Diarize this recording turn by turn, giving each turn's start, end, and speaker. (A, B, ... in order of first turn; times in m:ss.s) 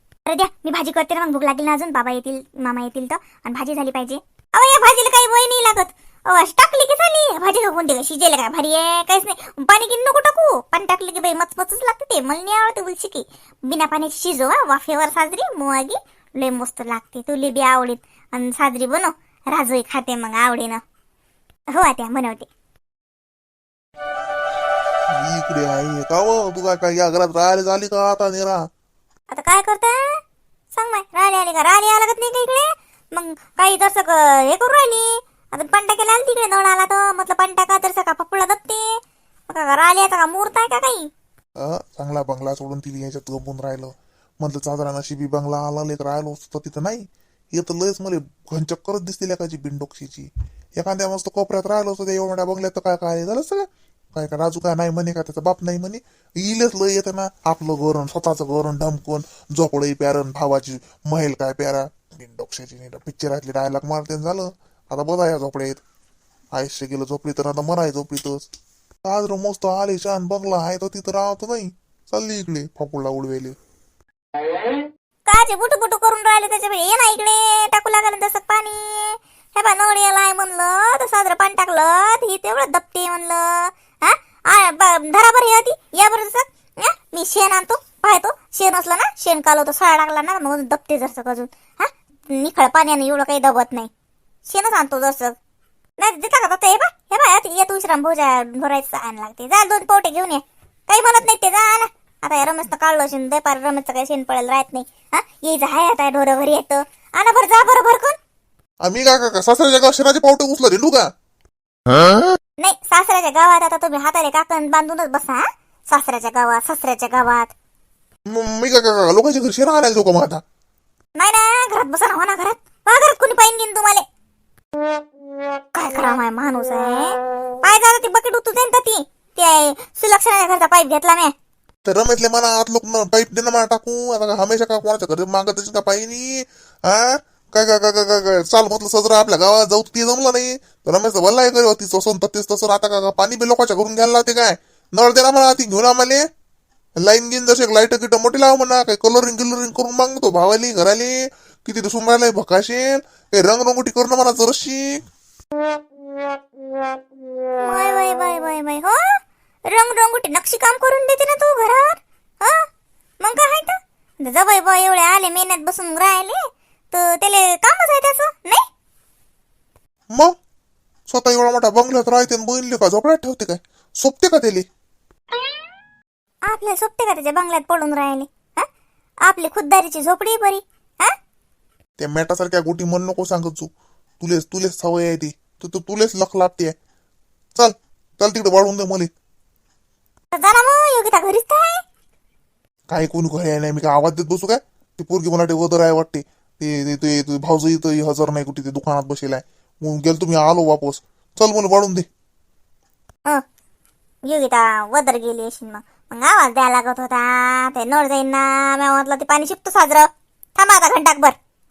0:00.2-0:20.8 A
0:21.7-0:22.5 A
0:25.1-0:28.6 B
0:29.3-0:30.2 A
0:30.7-0:41.1 A
0:41.6-0:50.3 B
0:50.8-1:05.8 B
1:06.5-1:08.5 B
1:09.0-1:13.5 B
1:15.3-1:33.9 A
1:34.4-1:35.3 A
1:36.0-1:48.2 A
1:48.8-1:51.1 B
1:51.9-1:52.2 B
1:52.6-1:57.5 A
1:58.2-2:00.4 B
2:01.2-2:04.0 A
2:05.7-2:11.3 A
2:11.8-2:26.2 B
2:27.0-2:35.0 B
2:37.6-2:42.6 A
2:43.2-2:46.4 A
2:46.9-2:48.6 A
2:51.1-2:54.6 B
2:56.4-2:58.7 A
2:59.2-3:01.1 A
3:02.0-3:03.7 B
3:04.2-3:06.7 B
3:07.5-3:09.1 B
3:10.3-3:11.8 A
3:12.9-3:22.0 B
3:24.2-3:31.4 A